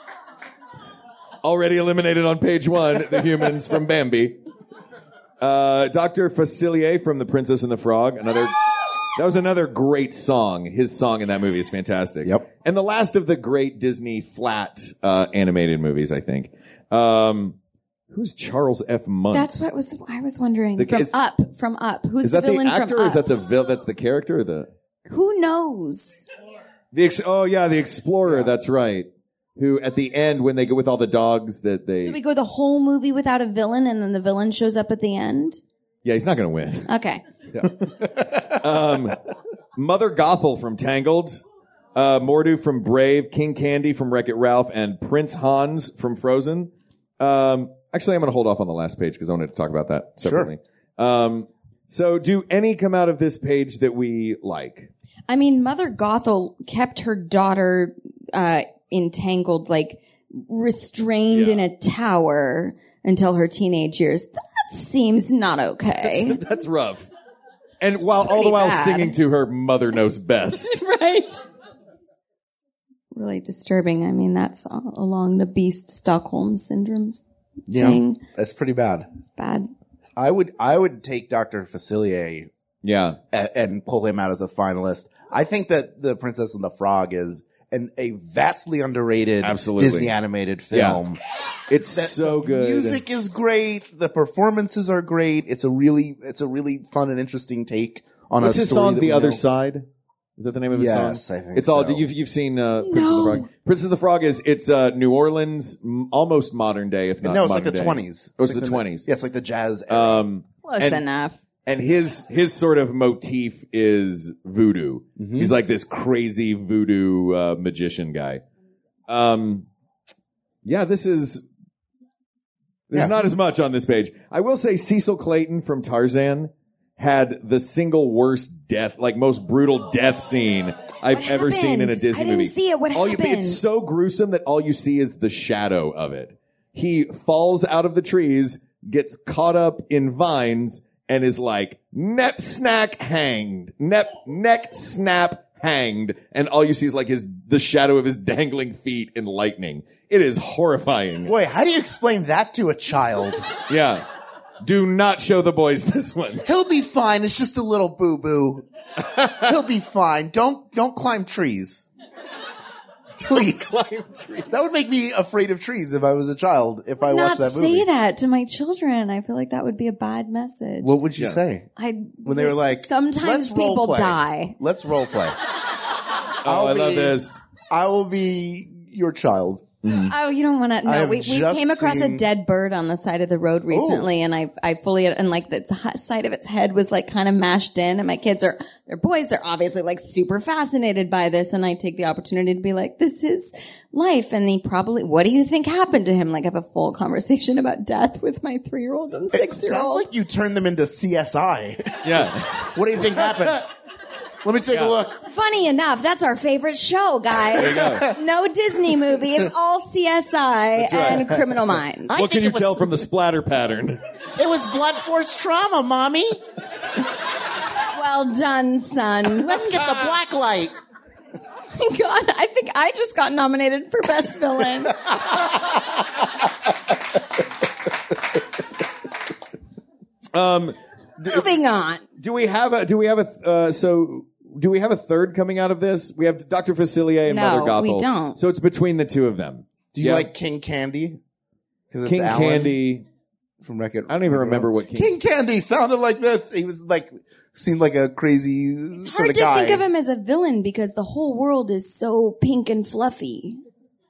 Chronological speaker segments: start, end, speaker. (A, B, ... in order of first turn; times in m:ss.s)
0:01.4-0:04.4 A
0:05.4-0:08.6 A
0:09.2-0:17.6 A
0:18.1-0:19.7 A
0:19.3-0:23.2 B
0:20.8-0:21.1 A
0:22.2-0:24.7 A
0:25.1-0:26.3 B
0:26.9-0:32.2 A
0:32.0-0:35.6 B
0:36.0-0:36.9 A
0:36.9-0:37.2 B
0:37.6-0:39.2 A
0:38.2-0:38.6 C
0:39.8-0:41.4 A
0:42.0-0:54.9 A
0:50.2-0:50.5 C
0:55.3-1:06.4 B
1:01.3-1:01.7 A
1:06.0-1:07.1 A
1:07.8-1:10.8 A
1:08.0-1:09.2 B
1:10.6-1:11.4 B
1:13.1-1:17.2 B
1:17.7-1:19.1 C
1:17.8-1:18.2 B
1:19.3-1:19.7 B
1:20.2-1:22.5 C
1:22.8-1:23.2 A
1:23.3-1:31.2 C
1:29.4-1:30.2 A
1:30.7-1:31.0 A
1:31.7-1:33.0 A
1:31.9-1:39.4 C
1:38.4-1:49.1 A
1:40.7-1:42.1 C
1:42.8-1:43.5 B
1:47.2-1:50.2 C
1:49.9-1:51.0 A
1:50.6-1:51.4 B
1:51.7-1:58.4 A
1:55.2-1:55.5 C
1:59.1-1:59.7 A
2:00.6-2:01.4 A
2:02.9-2:31.3 A
2:11.1-2:13.6 B
2:31.3-2:33.5 C
2:33.7-2:34.0 A
2:34.6-2:36.4 A
2:36.4-2:38.7 C
2:39.3-2:41.9 C
2:43.2-2:43.7 C
2:43.3-2:44.5 A
2:44.5-2:47.9 C
2:47.0-2:50.9 B
2:50.8-2:51.7 C
2:51.8-2:54.6 B
2:52.2-2:55.4 C
2:56.4-2:57.4 A
2:56.4-2:59.6 C
2:59.8-3:00.1 A
3:00.1-3:20.1 B
3:00.8-3:02.2 C
3:03.7-3:04.1 C
3:19.3-3:23.6 C
3:22.0-3:23.6 A
3:24.4-3:25.2 C
3:24.7-3:25.0 A
3:25.2-3:32.1 B
3:27.5-3:28.1 A
3:30.8-3:31.3 A
3:32.1-3:33.0 C
3:32.1-3:34.0 A
3:34.4-3:36.4 C
3:37.9-3:39.7 B
3:39.4-3:40.7 C
3:41.8-3:45.0 B
3:50.3-3:51.5 A
3:51.3-3:52.0 B
3:52.2-4:00.3 A
3:57.3-3:58.4 B
3:59.9-4:01.2 C
4:01.9-4:02.8 C
4:02.0-4:03.1 A
4:03.6-4:09.8 C
4:04.1-4:05.1 A
4:09.0-4:13.6 B